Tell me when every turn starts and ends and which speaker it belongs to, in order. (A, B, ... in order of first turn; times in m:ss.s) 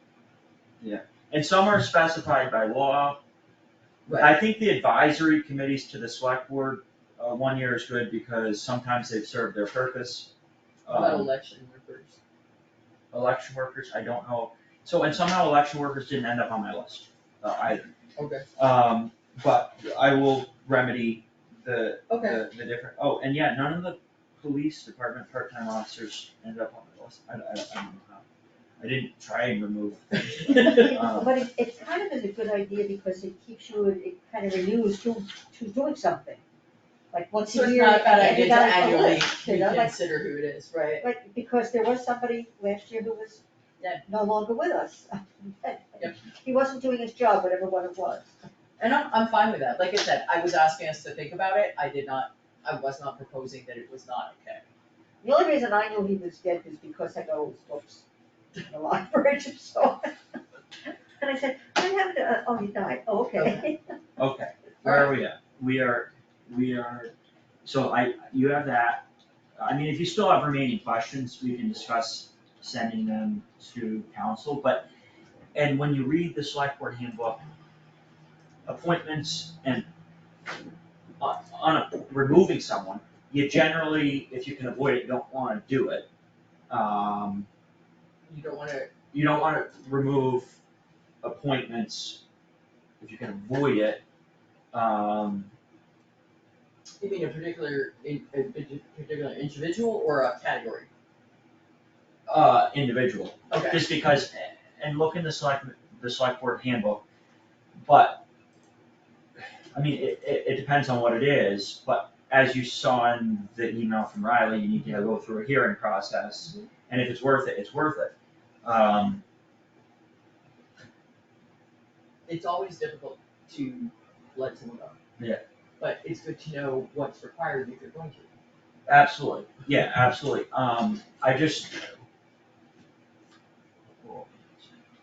0:00.8-0:03.2 A
0:04.1-0:04.4 B
0:04.1-0:10.3 A
0:10.8-0:11.3 A
0:10.9-0:12.2 B
0:13.1-0:17.9 A
0:18.2-0:18.5 B
0:18.6-0:28.2 A
0:22.1-0:22.4 B
0:28.8-0:31.3 A
0:30.7-0:36.4 C
0:37.1-0:40.0 C
0:37.5-0:41.0 B
0:41.0-0:43.4 C
0:43.8-0:44.0 B
0:44.0-0:48.3 C
0:48.8-0:54.6 B
0:55.2-1:00.2 C
1:01.2-1:03.9 C
1:03.4-1:03.7 B
1:04.2-1:07.1 A
1:04.8-1:05.1 B
1:07.6-1:09.1 A
1:09.6-1:14.9 A
1:15.6-1:17.4 A
1:18.7-1:19.9 A
1:21.2-1:26.1 A
1:26.7-1:27.5 A
1:28.3-1:28.9 B
1:29.1-1:30.6 A
1:31.2-1:32.2 A
1:33.0-1:34.0 A
1:34.7-1:35.5 A
1:37.0-1:40.9 B
1:42.3-1:47.0 A
1:43.5-1:43.9 B
1:47.8-1:48.2 A
1:49.7-1:59.2 A
1:56.4-1:56.7 B
2:02.3-2:05.0 B
2:05.8-2:08.3 B
2:08.9-2:11.8 A
2:14.0-2:14.7 A